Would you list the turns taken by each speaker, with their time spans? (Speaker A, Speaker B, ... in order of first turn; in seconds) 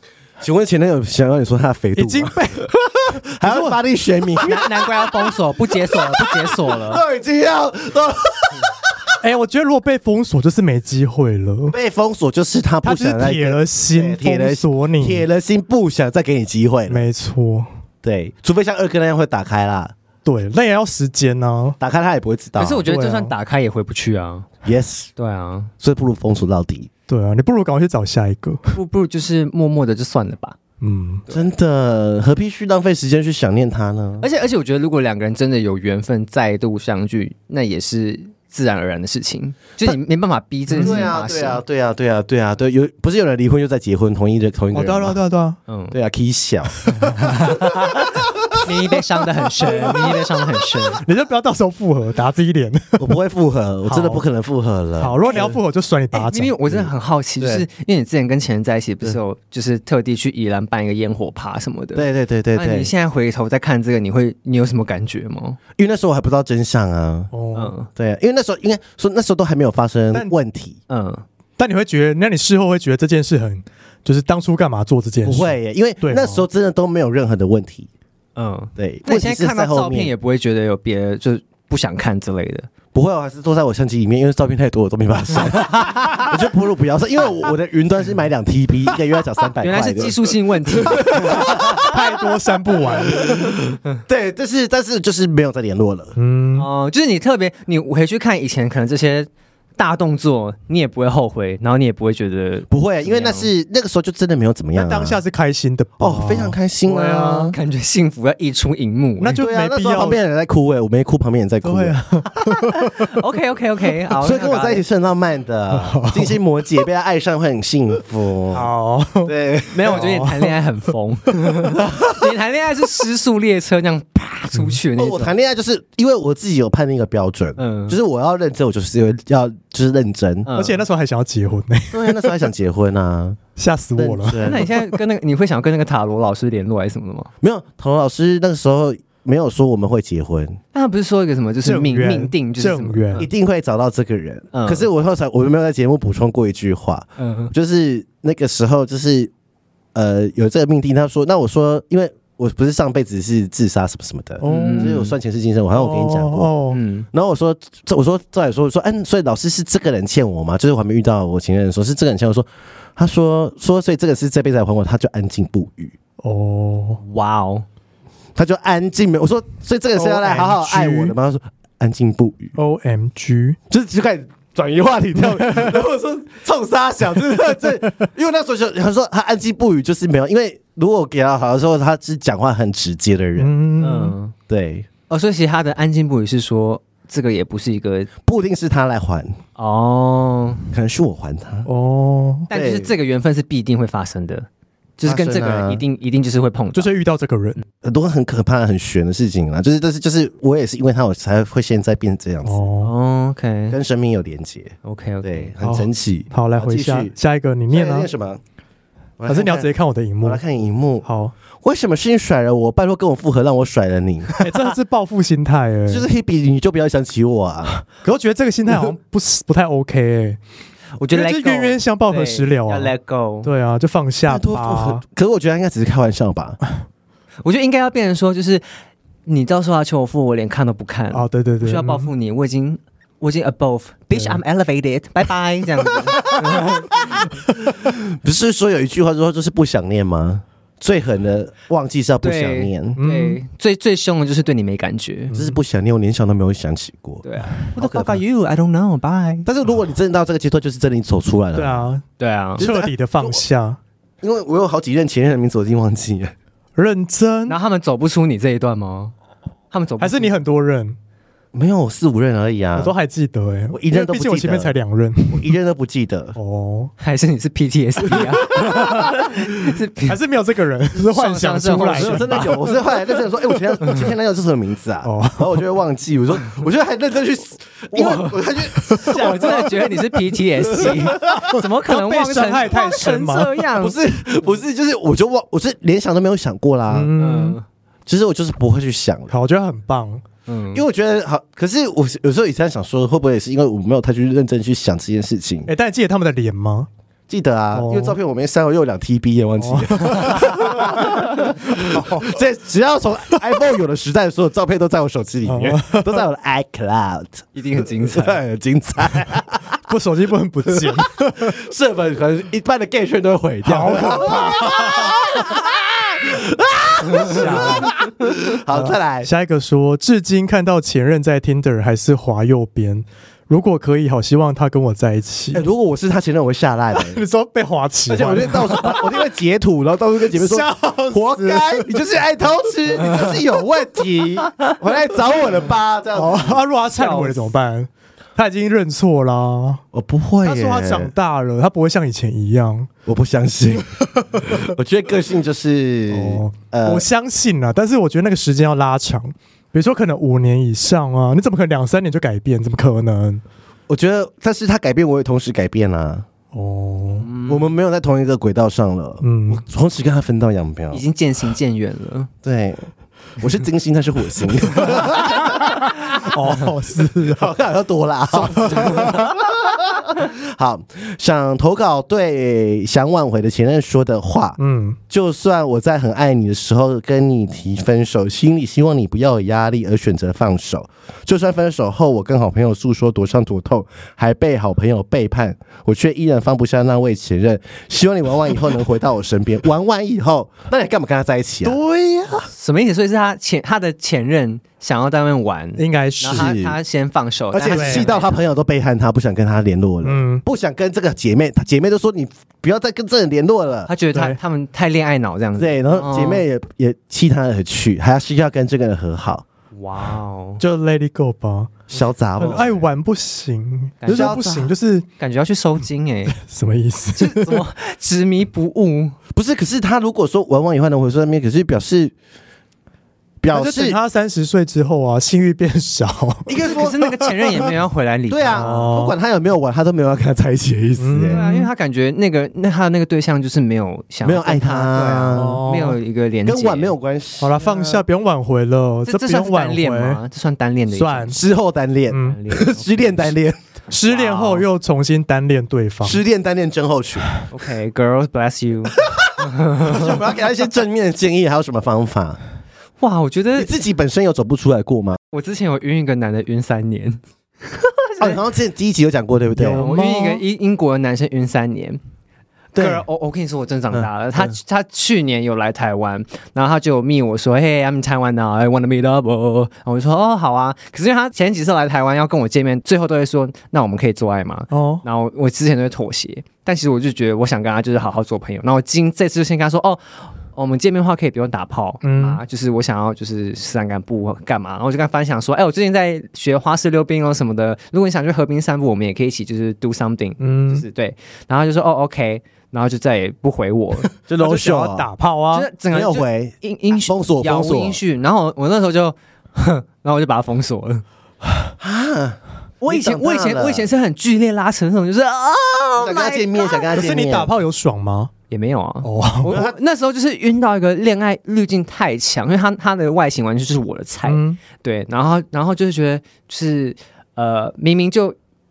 Speaker A: 0.4-9.0, 11.7-17.1, 18.0-19.9, 21.8-22.8, 24.6-25.1, 25.8-26.9, 31.3-34.3, 40.8-45.2, 45.9-47.5, 48.1-48.6, 53.0-55.6, 56.7-57.6, 62.0-62.9, 65.8-67.3, 68.0-70.8, 75.2-77.9, 78.8-80.1, 82.9-92.0, 93.1-96.2, 102.7-105.2, 106.0-107.6, 109.4-112.0, 114.2-118.7, 119.2-120.1, 121.9-122.2, 125.0-130.5, 131.9-133.4, 134.0-134.6, 137.4-140.6, 143.2-149.3, 149.9-156.5, 157.1-166.0, 168.4-172.5, 173.7-183.5, 184.5-184.9, 188.2-189.4, 190.7-191.7, 192.5-192.9, 195.0-195.8, 197.8-202.7, 203.7-207.2, 207.7-208.4, 209.2-209.7, 210.2-211.1, 211.6-214.6, 215.9-217.8, 224.3-226.6, 236.4-236.9, 237.6-243.0, 245.3-247.2, 247.8-248.2, 249.5-251.9, 252.6-253.4, 254.2-256.3, 261.5-262.9, 263.7-264.7, 265.3-266.4, 272.0-279.9, 280.7-281.4, 283.8-287.1, 288.1-289.3, 290.7-295.7, 297.3-307.5, 308.0-309.8, 310.7-319.3, 325.5-327.2, 328.1-336.6, 339.9-341.1, 343.1-347.1, 353.9-356.3, 357.5-361.0, 362.4-362.9, 363.4-366.2, 367.1-374.6, 375.1-391.8, 396.2-396.8, 397.5-403.9, 405.6-409.4, 411.9-412.9, 414.1-414.7, 419.3-422.1, 423.4-424.0, 426.5-427.0, 428.3-431.4, 434.2-435.7, 436.5-437.6, 441.3-443.6, 446.0-447.3, 449.1-452.4, 453.6-455.2, 458.2-459.9, 462.7-463.1, 463.9-464.5, 494.3-495.1, 495.9-498.0, 501.8-503.9, 506.0-507.5, 509.5-509.8
Speaker B: 2.0-3.8, 9.2-11.8, 12.8-15.2, 16.9-17.7, 20.2-21.8, 22.9-23.3, 27.1-28.7, 30.8-31.2, 40.7-41.0, 44.7-45.6, 46.8-47.3, 49.6-50.1, 51.0-53.1, 53.9-54.2, 55.0-56.5, 67.3-67.7, 71.6-76.5, 91.2-93.5, 96.2-96.7, 104.8-107.5, 109.2-110.2, 111.6-113.1, 115.7-116.4, 118.5-119.3, 119.9-120.5, 130.6-132.4, 133.6-135.0, 141.6-143.3, 154.4-155.0, 155.8-156.8, 166.2-167.0, 170.0-171.2, 172.6-173.6, 175.3-175.7, 183.4-184.2, 191.7-192.5, 196.7-197.6, 202.4-202.9, 205.6-208.1, 209.3-210.4, 211.0-211.3, 214.4-216.1, 217.9-220.4, 221.1-225.0, 231.1-232.1, 234.1-234.4, 243.0-243.4, 245.3-245.6, 251.6-252.1, 252.6-253.8, 256.8-257.6, 260.0-261.0, 262.8-265.6, 266.4-266.9, 268.6-269.4, 270.1-272.5, 275.0-275.6, 278.8-279.1, 281.1-283.6, 286.9-287.6, 289.3-290.2, 295.7-296.9, 297.7-298.2, 299.6-302.4, 305.5-306.2, 309.9-311.6, 313.6-315.2, 317.2-318.0, 318.7-325.6, 327.0-329.2, 330.3-331.9, 336.1-339.8, 340.4-342.9, 346.1-353.4, 356.5-357.3, 359.2-359.6, 365.5-367.5, 368.5-369.3, 374.6-375.0, 391.6-392.5, 395.8-396.5, 397.7-398.1, 400.0-400.4, 404.1-404.4, 410.6-411.8, 412.4-415.1, 416.4-417.6, 423.5-427.7, 428.5-429.1, 431.0-431.7, 435.3-436.0, 437.4-440.2, 440.9-441.4, 442.1-442.4, 443.9-446.2, 459.6-460.4, 474.7-475.0, 482.0-482.4, 490.4-490.9, 494.3-495.7, 506.9-508.3, 509.0-509.6, 514.3-514.6
Speaker C: 4.4-7.0, 22.6-24.5, 25.2-25.7, 28.7-30.6, 34.2-41.6, 45.7-46.0, 47.4-47.8, 48.6-51.0, 55.2-55.5, 56.1-65.6, 67.5-67.9, 70.9-71.2, 78.4-82.7, 89.6-91.9, 96.6-103.5, 107.5-109.4, 112.5-114.8, 119.7-125.3, 127.6-128.0, 130.4-130.8, 134.4-137.3, 140.7-143.3, 144.5-144.9, 147.2-147.5, 154.4-155.1, 156.7-157.1, 167.0-167.7, 183.8-184.3, 185.1-188.1, 189.6-190.7, 192.5-194.5, 195.0-196.9, 202.8-203.8, 204.8-205.5, 221.0-223.5, 227.4-228.6, 229.3-237.3, 242.2-245.3, 247.2-249.5, 252.2-252.6, 257.5-259.1, 259.7-260.3, 267.0-270.2, 270.9-272.7, 277.9-278.4, 279.0-284.0, 287.2-287.6, 290.5-290.8, 307.6-308.4, 336.9-337.5, 357.2-357.7, 360.9-362.3, 368.6-369.1, 392.5-398.4, 403.9-406.4, 409.7-410.6, 414.0-414.4, 415.2-416.4, 417.2-419.2, 426.6-428.8, 431.3-436.9, 437.6-438.0, 439.1-441.4, 442.2-443.2, 444.1-444.7, 447.5-450.1, 453.0-453.7, 455.3-458.4, 459.8-462.0, 462.8-494.1, 495.5-501.0, 502.8-506.8, 508.5-518.4